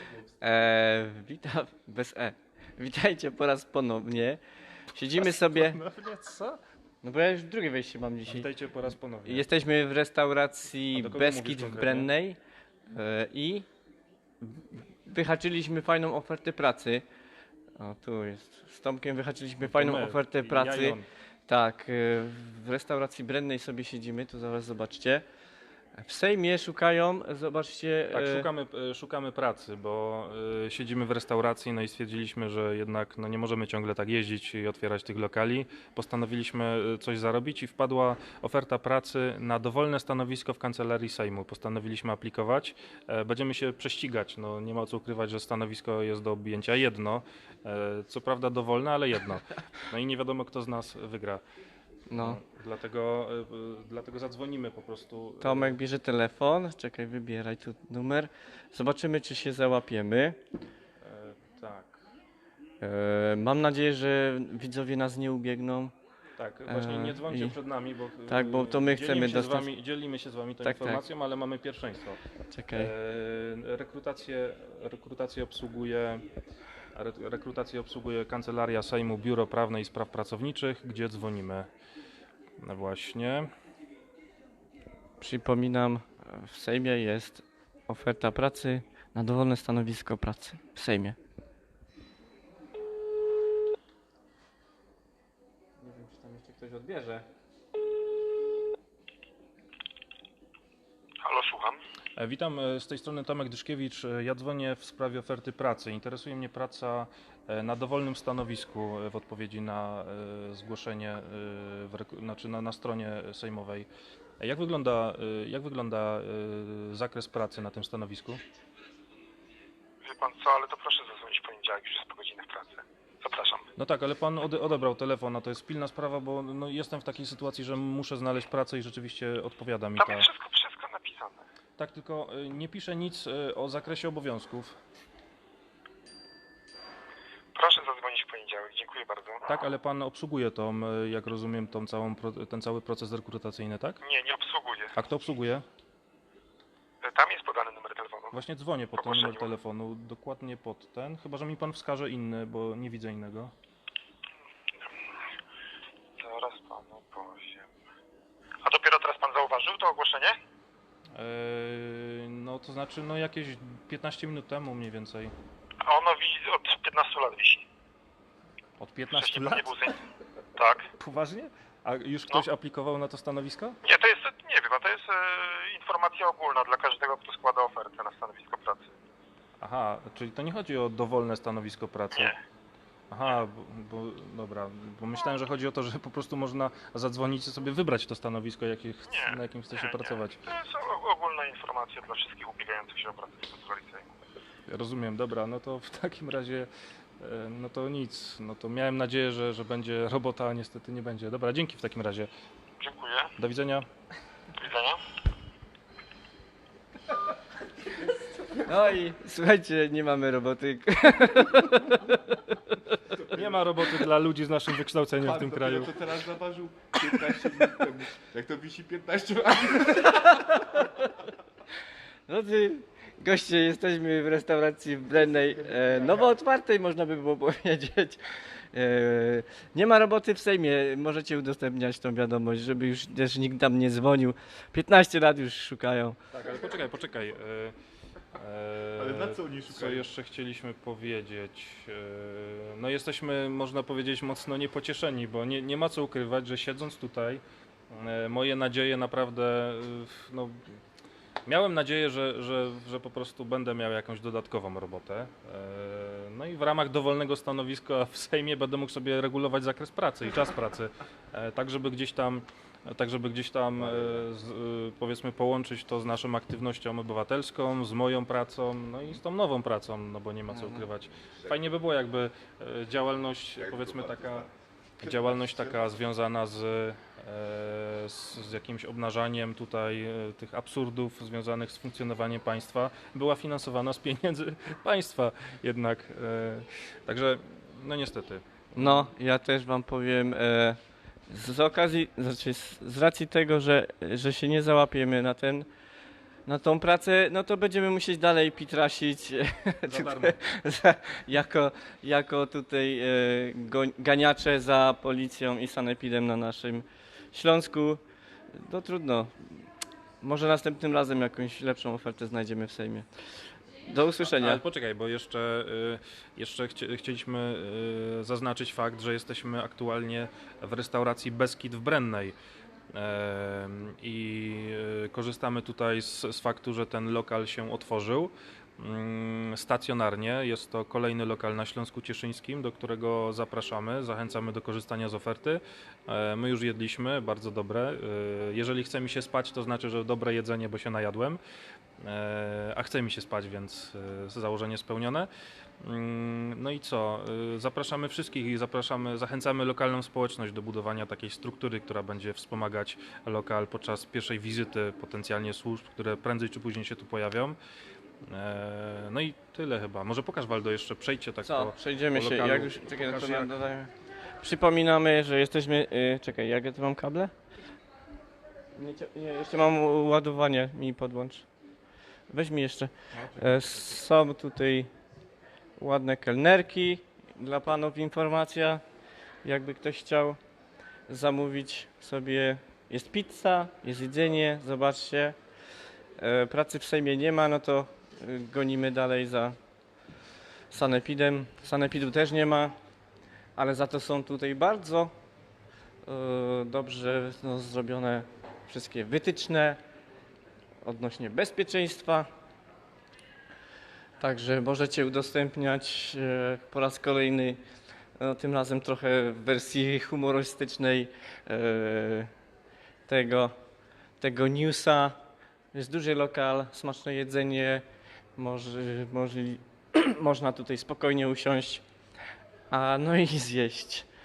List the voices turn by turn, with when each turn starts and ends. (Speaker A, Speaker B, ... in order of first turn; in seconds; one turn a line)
Speaker A: 0.4-4.4
Speaker A: 4.9-5.8
Speaker B: 5.0-6.6
Speaker A: 7.0-8.5
Speaker B: 8.2-9.5
Speaker A: 9.2-12.4
Speaker B: 10.9-12.1
Speaker A: 12.9-13.7
Speaker A: 15.0-17.1
Speaker A: 17.8-25.2
Speaker B: 19.6-21.1
Speaker A: 26.0-28.5
Speaker B: 28.1-51.4
Speaker A: 52.1-52.4
Speaker B: 52.2-55.8
Speaker A: 55.4-60.4
Speaker B: 61.0-62.1
Speaker A: 62.8-65.9
Speaker B: 66.4-72.2
Speaker A: 66.7-67.6
Speaker A: 68.3-69.7
Speaker A: 70.6-71.0
Speaker A: 72.5-72.9
Speaker B: 72.7-76.2
Speaker B: 76.9-81.7
Speaker B: 82.6-83.5
Speaker A: 85.2-91.2
Speaker A: 95.8-97.2
Speaker C: 101.2-101.8
Speaker B: 102.2-113.9
Speaker B: 114.4-118.4
Speaker C: 120.0-123.7
Speaker B: 123.8-130.3
Speaker C: 130.0-131.4
Speaker B: 131.8-134.8
Speaker C: 137.5-139.5
Speaker B: 139.5-144.0
Speaker C: 144.0-144.9
Speaker B: 144.9-145.6
Speaker C: 147.0-148.3
Speaker B: 148.3-153.5
Speaker C: 149.0-149.5
Speaker C: 156.2-157.7
Speaker C: 158.6-160.3
Speaker B: 161.1-165.3
Speaker C: 165.8-167.6
Speaker B: 168.8-169.7
Speaker C: 169.1-170.0
Speaker C: 170.5-170.9
Speaker B: 171.0-173.8
Speaker C: 173.8-178.9
Speaker B: 179.6-182.3
Speaker B: 183.1-190.4
Speaker C: 189.1-194.1
Speaker B: 194.7-202.3
Speaker C: 202.8-203.3
Speaker B: 203.4-203.8
Speaker C: 204.6-205.0
Speaker A: 208.5-213.1
Speaker B: 213.1-216.0
Speaker D: 213.2-213.4
Speaker D: 215.2-220.8
Speaker A: 220.1-221.1
Speaker A: 222.3-236.2
Speaker D: 225.4-226.2
Speaker B: 236.3-237.8
Speaker B: 238.3-250.8
Speaker D: 239.0-240.0
Speaker B: 251.4-274.5
Speaker D: 273.6-274.5
Speaker B: 275.0-289.1
Speaker D: 275.1-275.6
Speaker A: 288.8-290.8
Speaker A: 291.3-295.7
Speaker A: 296.4-308.0
Speaker B: 299.9-300.4
Speaker A: 308.5-309.7
Speaker A: 310.2-313.1
Speaker A: 313.8-314.6
Speaker B: 314.2-322.3
Speaker B: 322.9-341.4
Speaker B: 342.0-345.3
Speaker B: 345.8-357.6
Speaker B: 358.2-363.5
Speaker A: 361.4-367.3
Speaker A: 368.8-371.5
Speaker A: 372.3-374.9
Speaker B: 373.1-374.0
Speaker A: 375.8-378.8
Speaker A: 379.4-380.4
Speaker A: 381.1-385.4
Speaker A: 386.2-389.6
Speaker A: 390.7-392.7
Speaker A: 393.6-395.1
Speaker A: 396.1-399.8
Speaker A: 400.8-402.3
Speaker A: 404.2-407.6
Speaker A: 408.2-412.3
Speaker A: 413.1-413.5
Speaker A: 414.2-415.1
Speaker A: 415.7-417.8
Speaker A: 418.4-421.8
Speaker A: 422.7-424.1